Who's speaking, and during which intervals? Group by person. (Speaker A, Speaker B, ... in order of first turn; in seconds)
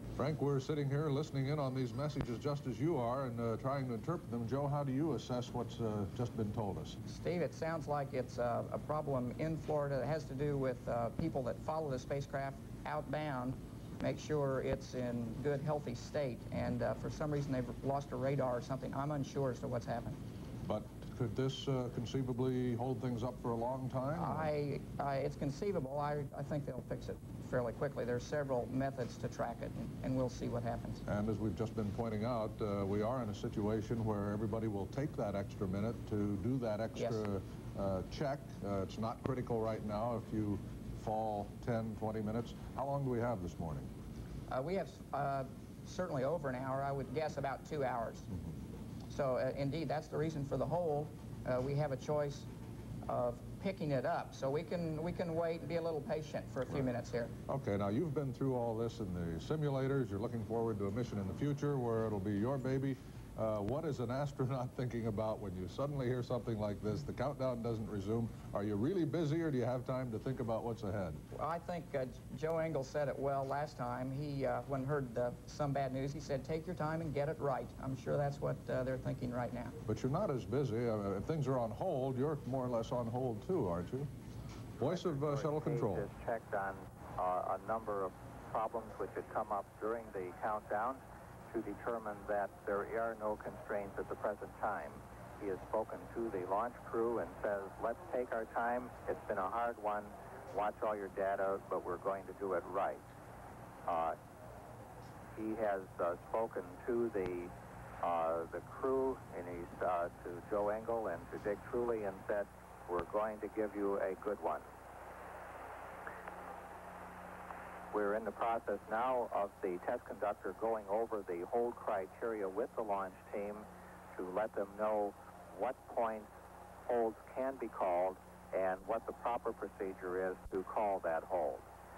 Speaker A: 0.2-7.0, 20.6-24.5, 31.1-43.9, 57.5-71.2, 79.8-84.1, 84.8-86.1
Speaker B: 7.1-20.2, 24.2-31.0, 37.0-37.2, 44.5-48.3, 49.1-52.5, 53.1-57.3, 71.3-79.8
Speaker C: 84.8-103.0, 103.9-104.2, 105.4-114.7, 117.9-126.3, 126.9-131.6